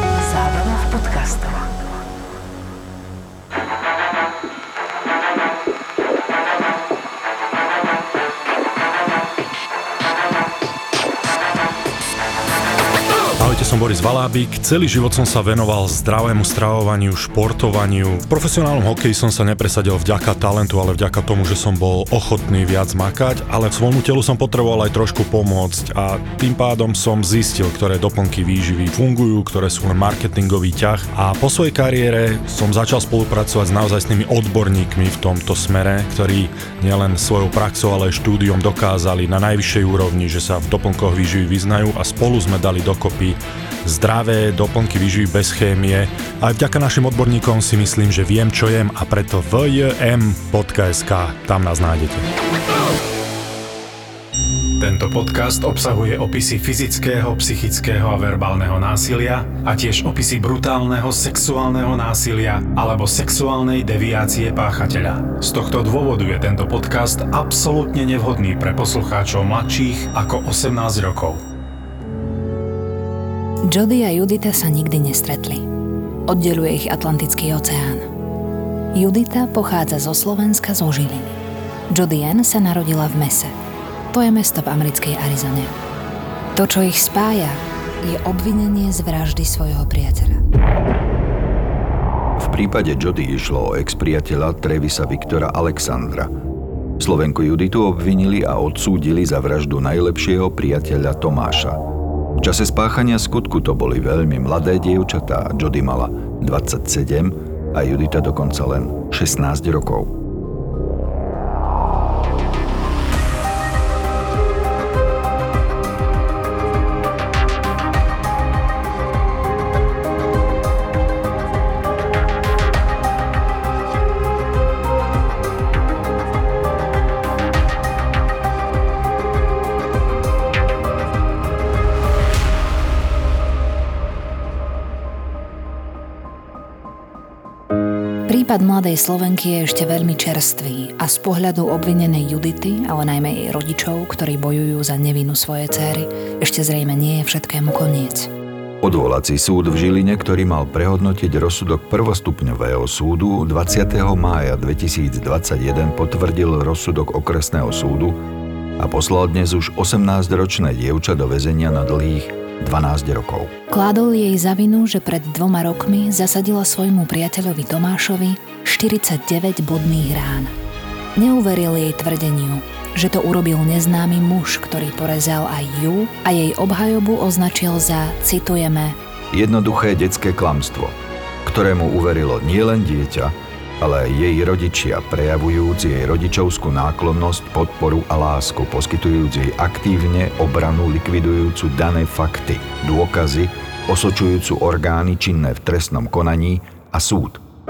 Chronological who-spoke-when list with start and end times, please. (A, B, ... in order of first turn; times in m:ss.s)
0:00.2-0:01.6 A
0:13.4-0:52.3 B
0:54.8-1:11.4 C
1:13.6-1:15.6 A
1:16.3-1:18.1 A
1:18.9-1:21.4 A
1:21.9-1:23.5 A
1:24.1-1:25.7 A
1:26.5-1:30.4 A
1:32.4-1:36.3 D
1:37.0-1:41.8 D
1:42.4-1:50.2 D
2:18.3-2:28.3 A
2:28.8-2:38.2 D
2:38.8-2:43.5 D
2:43.7-2:50.5 A
2:51.2-2:59.0 A
2:59.3-3:17.4 D